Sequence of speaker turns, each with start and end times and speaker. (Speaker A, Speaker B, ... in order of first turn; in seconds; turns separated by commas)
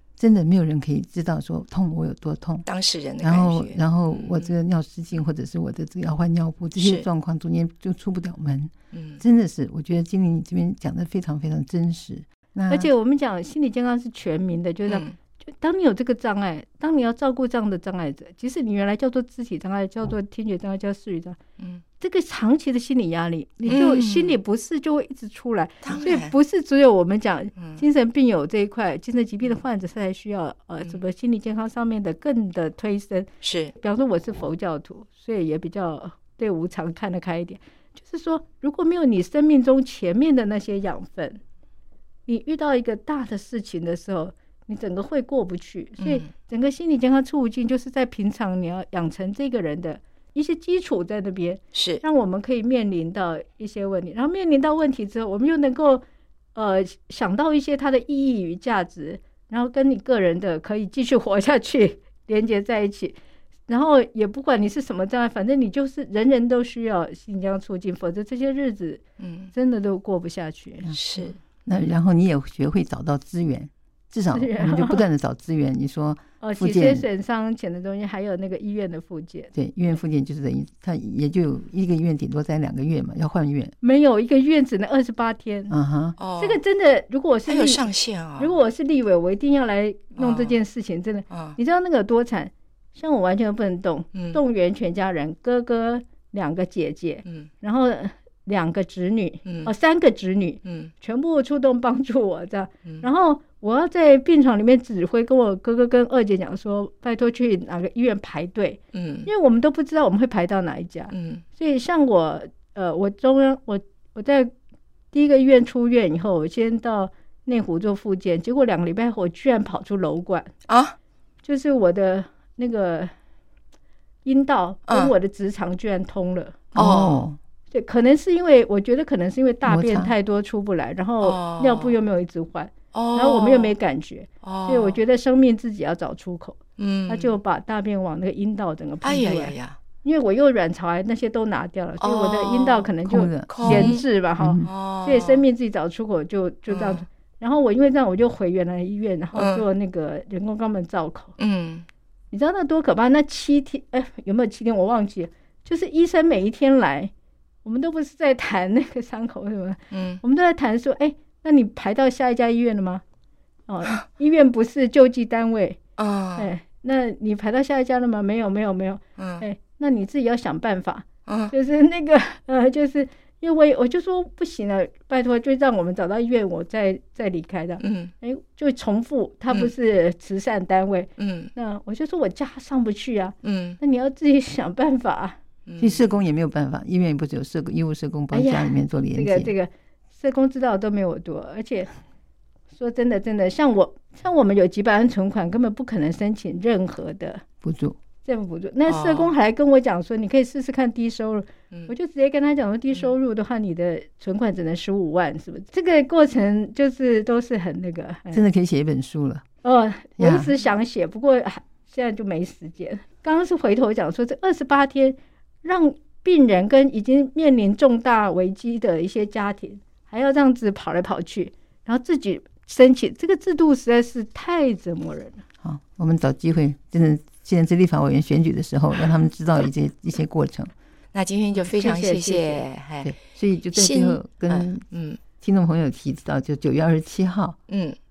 Speaker A: 0.2-2.7, Speaker B: 2.7-4.5, Speaker A: 3.2-12.9, Speaker B: 6.8-7.0, Speaker B: 8.9-9.2, Speaker C: 12.7-21.4, Speaker B: 14.9-15.1, Speaker C: 22.0-33.3, Speaker B: 23.6-24.4, Speaker B: 25.8-26.3, Speaker B: 27.6-27.8, Speaker B: 33.4-33.7, Speaker C: 33.8-41.4, Speaker C: 42.3-56.0, Speaker B: 46.0-46.2, Speaker B: 51.7-52.0, Speaker C: 56.5-63.1, Speaker C: 63.7-69.0, Speaker B: 69.2-69.5, Speaker C: 69.5-70.9, Speaker B: 70.9-71.4, Speaker A: 71.6-77.0, Speaker C: 74.3-75.0, Speaker C: 76.4-79.5, Speaker A: 79.5-83.7, Speaker C: 83.8-85.7, Speaker A: 85.7-86.2, Speaker B: 86.2-86.6, Speaker C: 86.4-87.8, Speaker B: 87.5-88.6, Speaker C: 88.4-114.5, Speaker B: 90.2-90.6, Speaker B: 91.3-91.6, Speaker B: 94.1-94.4, Speaker B: 99.5-99.7, Speaker B: 100.7-100.9, Speaker B: 108.9-109.3, Speaker B: 111.1-111.4, Speaker C: 115.1-120.5, Speaker B: 120.7-121.0, Speaker C: 121.4-123.1, Speaker C: 124.2-126.8, Speaker B: 124.9-125.1, Speaker A: 126.7-127.4, Speaker B: 126.8-127.2, Speaker C: 127.7-151.3, Speaker A: 129.6-130.1, Speaker B: 131.2-131.9, Speaker B: 132.9-133.8, Speaker B: 134.4-135.0, Speaker B: 136.8-137.4, Speaker B: 139.0-139.8, Speaker B: 142.0-142.9, Speaker A: 143.1-144.7, Speaker B: 143.5-144.0, Speaker B: 144.7-145.4, Speaker B: 146.7-147.0, Speaker B: 149.3-149.7, Speaker B: 151.4-151.8, Speaker C: 152.3-157.1, Speaker C: 157.6-163.0, Speaker B: 159.9-160.2, Speaker C: 163.7-165.8, Speaker B: 166.0-166.5, Speaker C: 166.4-185.4, Speaker B: 169.2-169.4, Speaker B: 171.2-171.5, Speaker B: 177.8-178.1, Speaker B: 181.2-181.5, Speaker B: 183.4-183.8, Speaker B: 185.7-186.1, Speaker A: 185.8-189.5, Speaker C: 188.3-191.9, Speaker C: 192.7-197.4, Speaker A: 197.6-198.0, Speaker C: 198.2-208.4, Speaker B: 198.9-199.3, Speaker A: 208.3-209.4, Speaker C: 209.6-225.4, Speaker A: 210.2-210.5, Speaker A: 225.6-230.7, Speaker B: 231.1-233.2, Speaker C: 231.6-232.6, Speaker A: 233.0-234.8, Speaker B: 233.7-235.2, Speaker A: 235.4-237.6, Speaker B: 237.7-238.0